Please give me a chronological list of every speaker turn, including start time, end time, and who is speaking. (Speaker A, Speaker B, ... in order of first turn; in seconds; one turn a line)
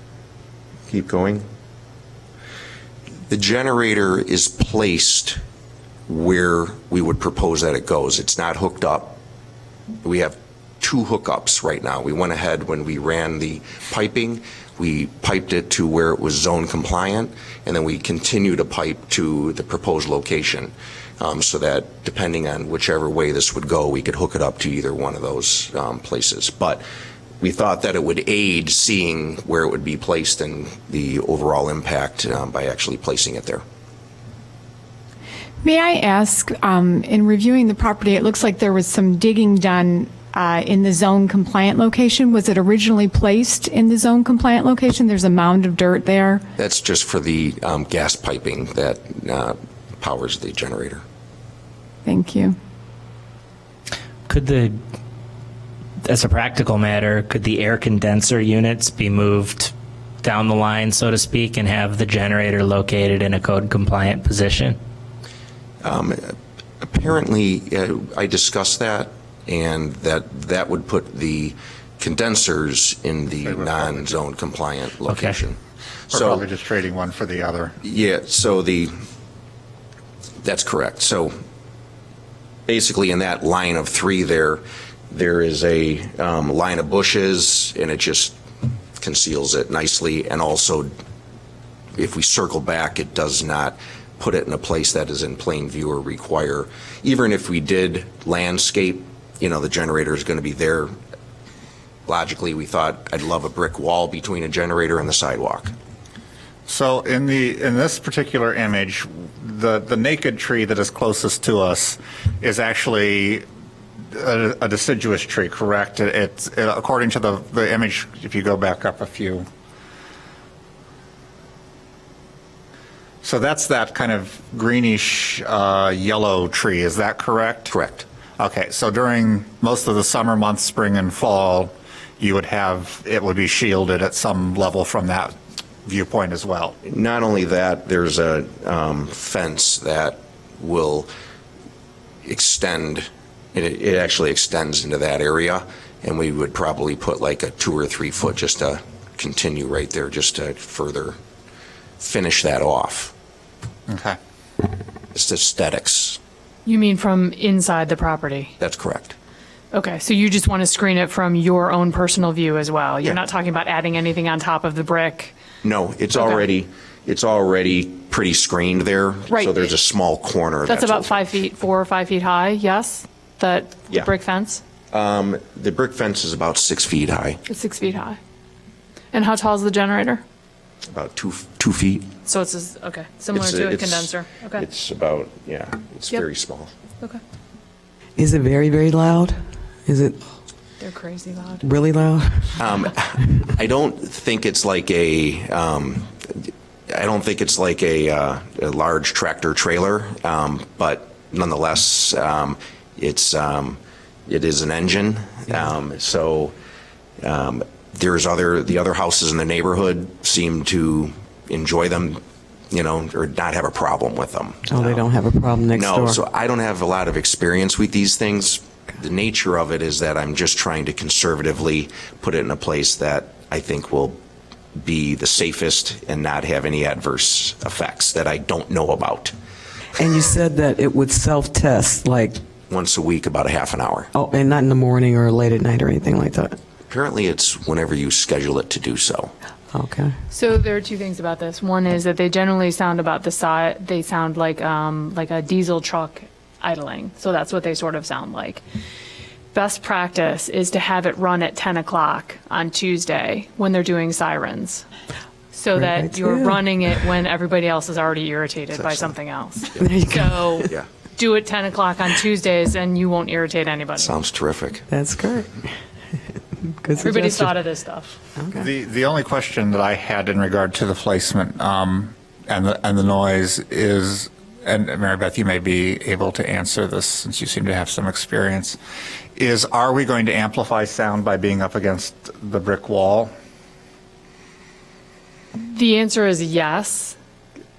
Speaker A: 0.9-1.4
Speaker A: 3.3-5.4
Speaker A: 6.1-9.2
Speaker A: 10.0-26.8
Speaker A: 27.4-33.6
Speaker B: 35.6-46.4
Speaker A: 46.5-51.0
Speaker B: 52.0-52.5
Speaker C: 54.3-54.8
Speaker C: 56.1-59.7
Speaker C: 60.2-64.8
Speaker A: 65.8-75.6
Speaker D: 73.4-74.2
Speaker A: 76.1-76.4
Speaker D: 76.1-77.8
Speaker A: 77.8-78.9
Speaker A: 80.4-81.3
Speaker A: 82.7-88.4
Speaker A: 89.0-90.9
Speaker A: 92.0-100.9
Speaker A: 102.1-105.7
Speaker D: 106.7-113.4
Speaker D: 114.1-119.5
Speaker D: 123.2-127.7
Speaker A: 127.7-128.1
Speaker D: 128.4-136.8
Speaker A: 136.8-141.1
Speaker A: 142.2-151.2
Speaker A: 152.0-153.1
Speaker D: 153.9-154.2
Speaker A: 155.1-156.2
Speaker E: 156.7-158.5
Speaker A: 158.6-159.2
Speaker E: 159.7-165.3
Speaker A: 165.6-171.2
Speaker E: 169.3-169.7
Speaker E: 170.7-174.6
Speaker A: 174.9-177.4
Speaker E: 177.5-178.2
Speaker E: 179.1-180.2
Speaker A: 180.9-182.1
Speaker E: 182.2-184.6
Speaker A: 183.3-186.7
Speaker F: 188.2-189.3
Speaker F: 189.8-190.2
Speaker E: 190.8-191.7
Speaker F: 191.6-192.6
Speaker A: 192.6-206.5
Speaker A: 207.2-215.0
Speaker F: 214.7-216.2
Speaker A: 215.7-224.2
Speaker A: 224.8-229.3
Speaker F: 230.0-232.4
Speaker A: 232.7-234.1
Speaker F: 234.1-236.6
Speaker A: 236.9-239.3
Speaker F: 239.7-240.2
Speaker E: 240.3-248.6
Speaker E: 249.5-254.9
Speaker E: 255.5-264.1
Speaker F: 255.8-256.6
Speaker A: 258.8-259.1
Speaker F: 259.9-260.6
Speaker A: 264.0-264.8
Speaker F: 264.9-265.7
Speaker F: 266.6-267.6
Speaker E: 267.0-268.2
Speaker D: 268.6-278.8
Speaker D: 279.4-283.3
Speaker E: 285.7-287.2